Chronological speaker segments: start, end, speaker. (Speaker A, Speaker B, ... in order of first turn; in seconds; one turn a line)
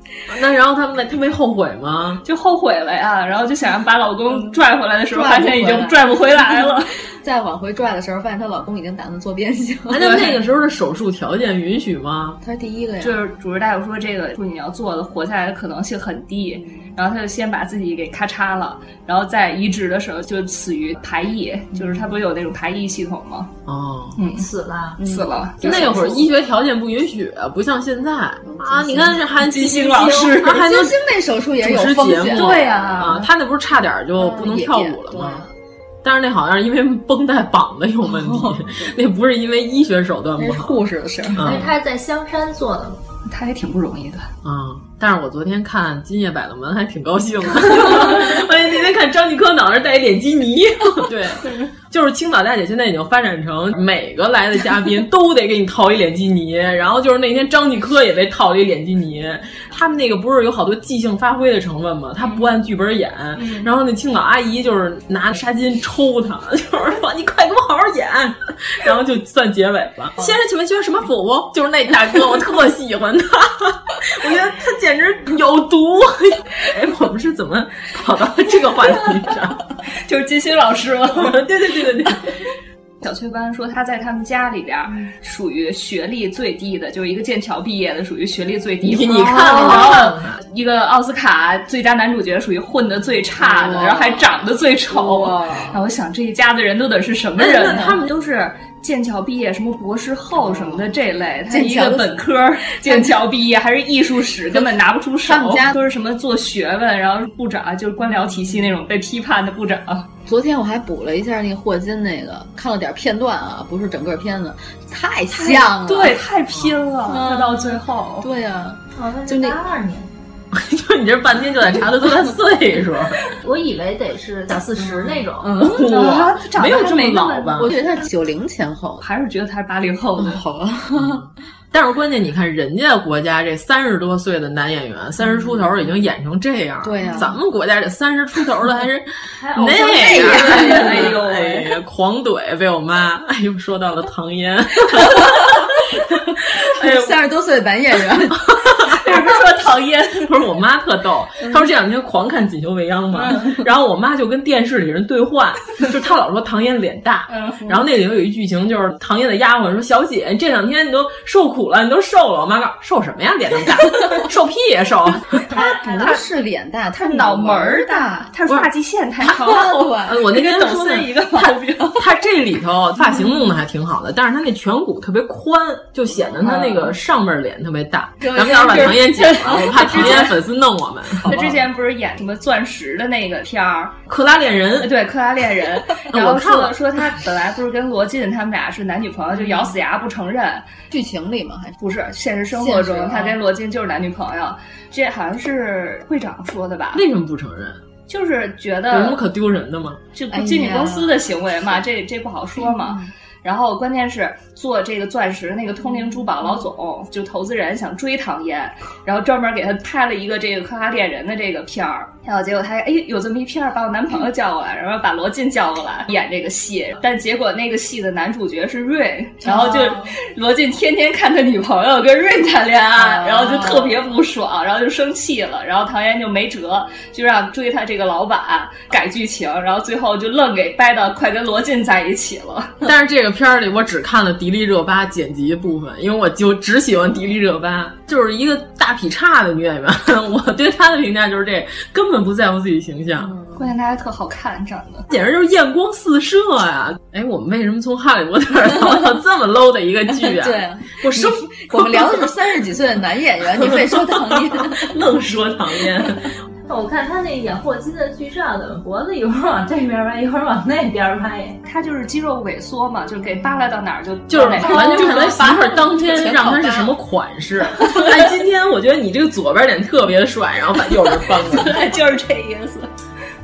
Speaker A: 0.3-2.2
Speaker B: 2.2-6.9
Speaker C: 4.3-4.6
Speaker C: 5.1-10.3
Speaker A: 9.9-12.4
Speaker B: 10.0-10.3
Speaker C: 12.4-13.2
Speaker B: 13.0-23.5
Speaker C: 16.5-16.9
Speaker C: 21.8-22.1
Speaker A: 23.7-24.2
Speaker B: 24.2-24.5
Speaker D: 24.3-25.0
Speaker C: 25.0-26.3
Speaker B: 25.0-26.3
Speaker A: 25.6-30.9
Speaker C: 28.4-29.4
Speaker B: 29.4-30.8
Speaker C: 30.4-32.9
Speaker A: 31.6-35.5
Speaker B: 32.3-33.3
Speaker C: 34.2-35.5
Speaker A: 36.0-40.8
Speaker C: 38.0-38.9
Speaker C: 40.4-41.6
Speaker A: 41.4-41.7
Speaker D: 41.4-43.0
Speaker B: 43.3-44.3
Speaker A: 44.4-79.6
Speaker B: 63.4-63.7
Speaker B: 80.0-81.4
Speaker A: 81.1-82.3
Speaker B: 83.0-110.1
Speaker A: 88.8-90.4
Speaker C: 89.4-90.0
Speaker A: 93.5-94.1
Speaker C: 93.6-94.0
Speaker C: 94.9-95.8
Speaker A: 97.4-98.1
Speaker C: 100.3-101.0
Speaker C: 101.5-103.2
Speaker C: 105.2-105.8
Speaker A: 105.3-105.7
Speaker C: 110.3-116.2
Speaker B: 115.3-118.3
Speaker C: 117.0-119.6
Speaker D: 119.0-120.1
Speaker A: 120.5-123.2
Speaker D: 123.4-125.5
Speaker C: 125.4-126.0
Speaker A: 125.6-127.7
Speaker B: 125.7-127.7
Speaker C: 127.6-129.0
Speaker B: 129.0-130.4
Speaker C: 130.2-131.3
Speaker A: 131.0-146.0
Speaker C: 135.2-135.9
Speaker C: 136.8-137.4
Speaker D: 139.3-140.9
Speaker C: 139.8-141.1
Speaker B: 140.1-141.7
Speaker C: 145.0-145.7
Speaker C: 146.4-148.6
Speaker A: 146.6-147.2
Speaker A: 148.5-149.0
Speaker B: 149.0-150.3
Speaker A: 150.2-165.5
Speaker B: 153.2-153.6
Speaker B: 157.3-157.8
Speaker B: 165.5-166.2
Speaker C: 165.5-168.3
Speaker B: 166.9-172.1
Speaker C: 169.2-170.2
Speaker A: 170.1-171.1
Speaker A: 172.0-181.4
Speaker C: 176.3-176.7
Speaker B: 176.4-176.9
Speaker C: 178.2-180.3
Speaker B: 178.8-180.4
Speaker C: 181.2-181.7
Speaker B: 181.2-184.0
Speaker A: 184.1-184.9
Speaker B: 184.8-190.7
Speaker A: 186.1-186.8
Speaker C: 189.4-189.7
Speaker C: 190.9-191.8
Speaker B: 191.8-197.1
Speaker C: 192.5-193.4
Speaker A: 196.9-197.8
Speaker B: 198.1-199.2
Speaker A: 198.9-200.0
Speaker B: 200.2-232.8
Speaker C: 200.3-201.8
Speaker C: 202.6-203.1
Speaker C: 205.8-206.6
Speaker C: 219.4-220.1
Speaker C: 223.0-224.0
Speaker A: 232.8-243.3
Speaker C: 243.2-243.8
Speaker B: 243.6-245.1
Speaker A: 245.1-252.3
Speaker C: 250.1-255.2
Speaker A: 253.6-256.3
Speaker D: 256.7-261.6
Speaker B: 261.6-265.6
Speaker A: 264.3-271.9
Speaker C: 264.7-266.9
Speaker B: 271.4-272.9